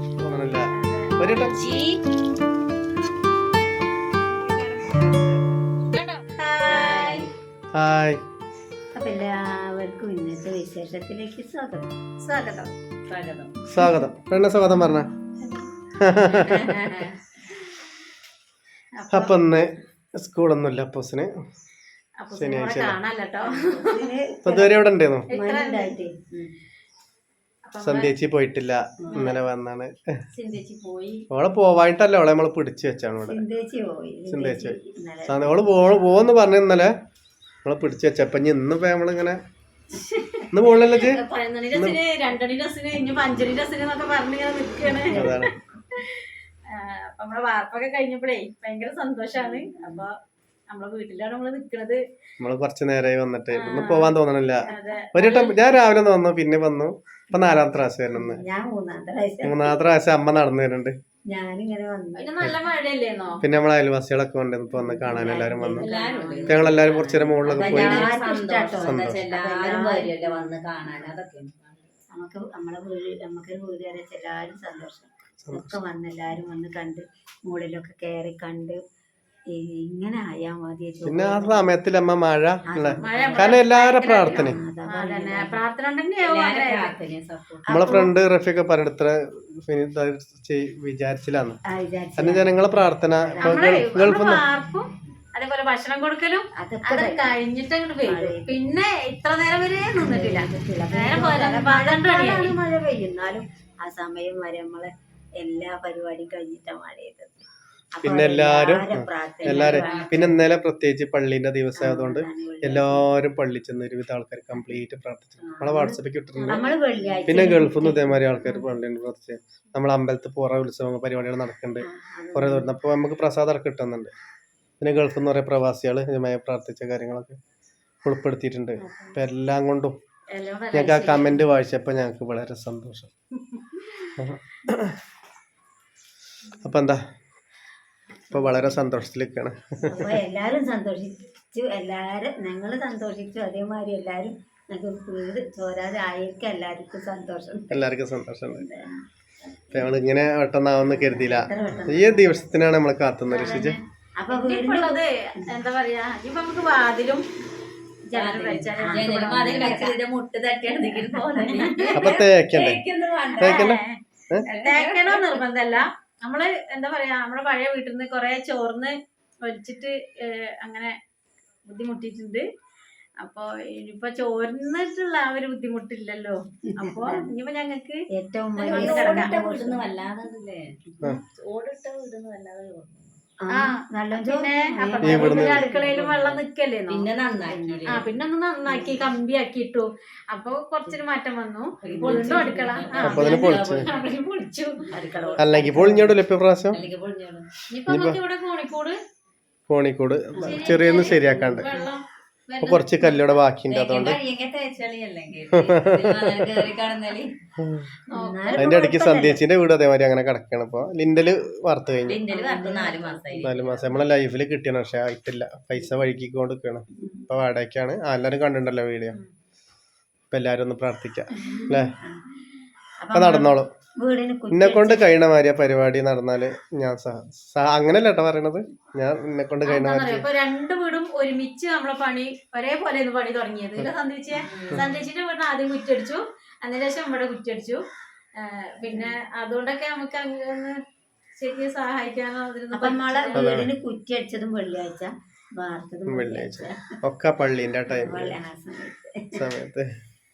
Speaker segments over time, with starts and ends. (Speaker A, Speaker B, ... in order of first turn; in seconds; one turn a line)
Speaker A: 0.2-1.6
Speaker B: 0.7-2.0
Speaker C: 4.3-5.4
Speaker B: 5.9-7.3
Speaker C: 6.7-7.3
Speaker A: 7.7-8.2
Speaker D: 8.9-11.9
Speaker B: 12.2-12.7
Speaker C: 13.1-13.5
Speaker A: 13.7-15.1
Speaker A: 16.0-16.8
Speaker B: 16.5-17.2
Speaker B: 19.0-19.4
Speaker A: 19.1-21.3
Speaker B: 22.2-24.1
Speaker A: 22.3-23.0
Speaker D: 23.4-26.2
Speaker A: 24.4-25.3
Speaker B: 25.3-25.9
Speaker B: 27.7-28.1
Speaker A: 27.8-30.1
Speaker B: 29.1-29.4
Speaker B: 30.3-31.2
Speaker A: 31.3-33.4
Speaker D: 33.2-35.6
Speaker A: 34.3-36.9
Speaker A: 37.6-39.4
Speaker B: 39.9-45.2
Speaker A: 40.5-41.2
Speaker A: 41.7-42.0
Speaker D: 44.8-45.5
Speaker A: 45.1-45.5
Speaker B: 45.9-50.1
Speaker D: 49.4-50.0
Speaker B: 50.7-52.0
Speaker A: 52.4-58.4
Speaker B: 53.5-55.6
Speaker D: 57.3-59.8
Speaker A: 59.4-60.9
Speaker D: 61.3-62.5
Speaker B: 62.2-63.4
Speaker A: 63.4-65.9
Speaker D: 64.7-66.9
Speaker C: 65.8-71.9
Speaker A: 66.5-68.2
Speaker D: 67.4-71.1
Speaker A: 68.8-69.2
Speaker D: 72.1-78.8
Speaker A: 75.4-75.8
Speaker D: 79.5-81.6
Speaker A: 81.0-84.6
Speaker D: 82.7-83.6
Speaker B: 83.0-87.0
Speaker D: 84.2-85.6
Speaker C: 86.2-87.7
Speaker D: 87.7-88.1
Speaker A: 87.7-91.6
Speaker D: 91.7-92.5
Speaker A: 92.2-94.4
Speaker D: 93.2-93.9
Speaker B: 93.4-102.6
Speaker D: 96.5-97.3
Speaker D: 98.0-98.6
Speaker D: 100.0-107.3
Speaker D: 107.9-110.4
Speaker A: 108.0-116.7
Speaker C: 109.5-110.2
Speaker D: 111.8-113.1
Speaker D: 115.4-118.6
Speaker B: 116.3-116.7
Speaker A: 117.2-124.1
Speaker D: 121.8-122.7
Speaker A: 124.8-127.4
Speaker A: 128.0-130.0
Speaker D: 128.8-129.2
Speaker B: 130.3-131.4
Speaker A: 130.7-133.1
Speaker A: 134.2-135.0
Speaker A: 136.6-137.0
Speaker D: 138.3-138.8
Speaker A: 138.3-140.2
Speaker D: 139.8-147.8
Speaker A: 147.7-148.7
Speaker D: 148.4-150.0
Speaker A: 149.7-153.8
Speaker D: 150.9-152.6
Speaker B: 153.3-157.2
Speaker D: 153.4-155.5
Speaker B: 158.1-159.9
Speaker C: 158.1-163.7
Speaker D: 158.8-160.0
Speaker D: 160.9-161.9
Speaker B: 161.5-161.9
Speaker A: 161.9-162.8
Speaker B: 163.4-171.0
Speaker A: 163.4-164.4
Speaker C: 164.4-165.4
Speaker B: 171.7-172.5
Speaker B: 173.2-178.0
Speaker D: 176.8-177.3
Speaker D: 178.1-179.8
Speaker C: 178.6-180.8
Speaker B: 178.6-179.4
Speaker D: 180.9-181.2
Speaker B: 181.5-182.8
Speaker C: 182.2-182.6
Speaker D: 183.4-186.2
Speaker B: 183.5-187.1
Speaker A: 185.0-185.6
Speaker C: 185.8-188.0
Speaker D: 187.4-188.1
Speaker B: 187.9-194.8
Speaker D: 188.7-189.0
Speaker C: 191.8-194.1
Speaker D: 191.9-192.4
Speaker A: 193.0-193.8
Speaker D: 194.9-196.1
Speaker C: 194.9-195.6
Speaker A: 195.4-196.8
Speaker C: 196.7-197.4
Speaker B: 197.7-199.0
Speaker A: 197.9-198.2
Speaker A: 199.7-201.7
Speaker D: 200.3-201.8
Speaker B: 200.4-203.2
Speaker A: 202.6-204.2
Speaker C: 203.7-207.3
Speaker A: 205.5-206.7
Speaker A: 207.6-207.9
Speaker B: 208.1-208.8
Speaker D: 208.1-209.4
Speaker A: 208.6-212.2
Speaker C: 212.1-214.0
Speaker D: 212.3-213.5
Speaker A: 213.4-219.2
Speaker D: 217.0-217.2
Speaker A: 220.3-221.9
Speaker D: 221.4-222.4
Speaker D: 223.0-225.0
Speaker A: 223.1-223.7
Speaker A: 224.5-230.3
Speaker B: 229.6-237.8
Speaker C: 234.5-234.8
Speaker B: 238.4-240.8
Speaker D: 238.8-239.2
Speaker B: 241.4-243.5
Speaker D: 242.7-246.9
Speaker A: 243.3-243.7
Speaker A: 246.1-248.4
Speaker D: 247.9-249.5
Speaker A: 249.3-249.9